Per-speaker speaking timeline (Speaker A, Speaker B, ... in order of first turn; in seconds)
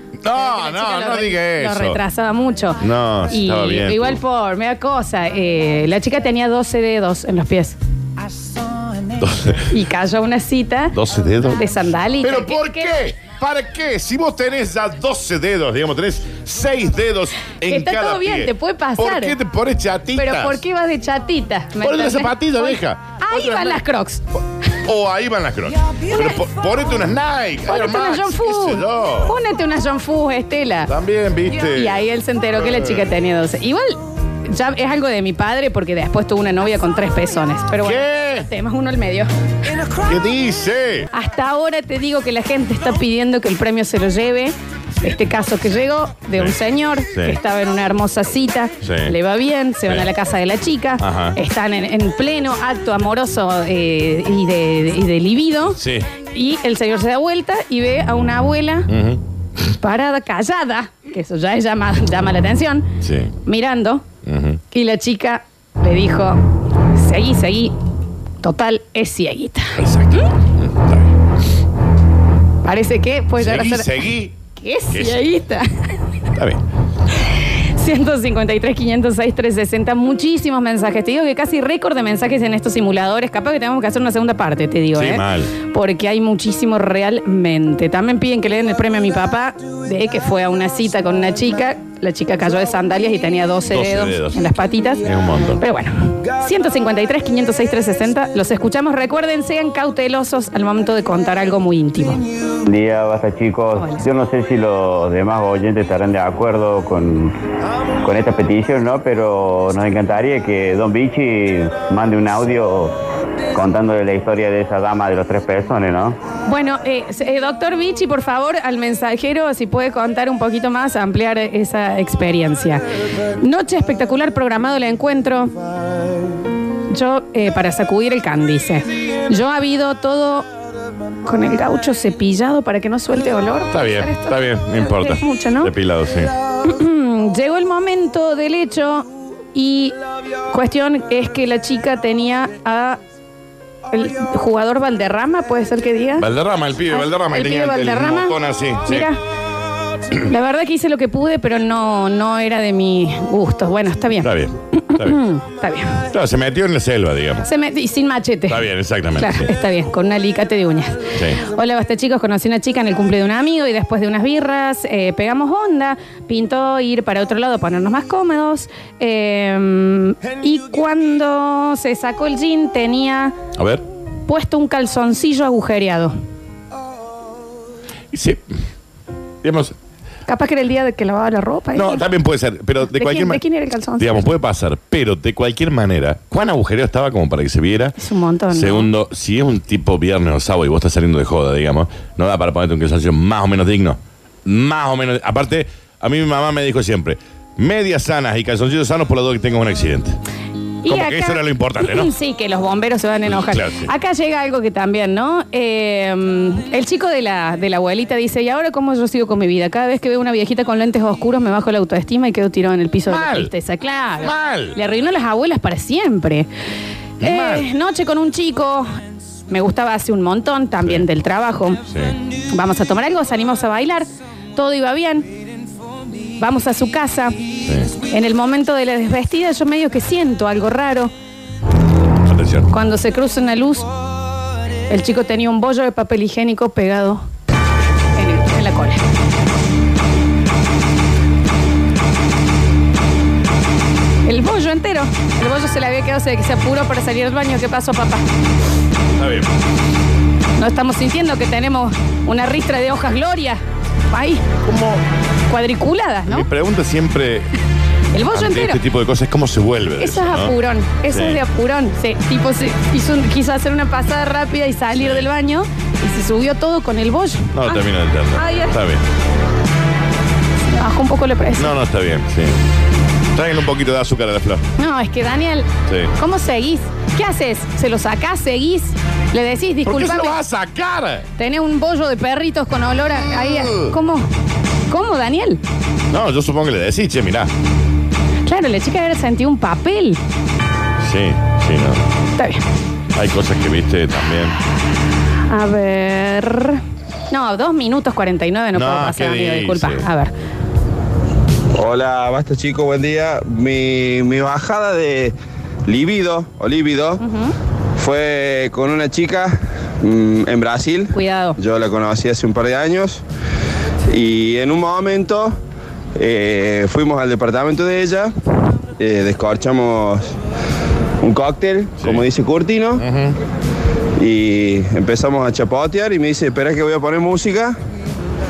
Speaker A: 0.2-2.0, 2.8-4.2, 9.2-9.7, 10.9-11.6, 12.2-20.6, 21.8-23.8, 24.9-29.4, 30.9-32.0, 32.6-33.1, 37.8-38.5, 40.0-41.1, 48.8-49.1, 51.0-51.4, 55.8-56.1, 58.9-59.2, 63.0-63.4, 64.2-64.6, 69.8-71.1, 73.4-74.3, 74.9-75.2, 76.3-76.6, 84.9-85.5, 93.7-94.4, 95.0-95.6, 133.7-136.3, 146.2-149.1, 154.2-155.2, 156.1-157.5, 158.5-159.5, 173.6-173.8, 178.1-178.6, 179.4-179.8, 181.7-183.4, 184.0-187.9, 188.5-200.2, 200.9-202.1, 203.3-203.9, 213.1-213.5, 214.2-214.8, 217.2-217.7, 221.9-222.2, 227.6-227.9, 232.3-232.7, 249.2-249.5, 254.6-255.0, 256.3-257.5, 258.3-260.6, 261.1-261.4, 264.9-265.3, 267.5-269.0, 271.6-272.6, 273.3-274.6, 275.9-276.1, 279.9-281.3, 283.3-283.9, 286.1-287.5, 291.0-292.1, 293.1-294.6, 298.7-300.1, 322.0-322.3, 323.0-323.4
Speaker B: 0.3-7.8, 9.7-10.9, 11.5-13.0, 17.7-19.4, 20.2-24.2, 27.7-30.9, 31.5-39.3, 41.1-55.8, 56.3-58.9, 59.8-62.9, 63.5-64.0, 64.7-66.4, 67.0-67.8, 68.4-70.2, 72.6-73.9, 74.5-75.7, 77.3-95.1, 95.6-102.2, 103.8-104.0, 116.5-122.8, 123.4-125.5, 126.9-130.5, 131.2-135.7, 136.6-139.9, 140.5-143.0, 143.9-146.3, 146.9-149.2, 150.3-156.0, 157.4-158.6, 159.2-173.4, 174.3-176.1, 180.3-182.1, 182.9-184.2, 188.0-188.9, 200.8-216.5, 217.2-218.9, 219.5-221.8, 222.5-225.3, 226.4-227.4, 228.1-231.1, 232.7-233.9, 234.9-237.3, 238.2-239.0, 244.2-248.2, 250.6-254.5, 255.5-256.5, 258.1-258.8, 260.0-268.7, 270.7-271.8, 274.8-280.4, 281.4-284.3, 284.9-285.6, 288.5-290.2, 292.4-292.6, 295.5-300.3, 307.2-307.5, 311.1-311.6
Speaker C: 102.7-107.4, 108.0-113.0, 113.5-116.2
Speaker D: 301.7-305.4, 305.9-307.2, 308.0-313.2, 314.1-315.6, 316.2-318.3, 319.0-320.4, 321.2-323.0, 324.2-327.8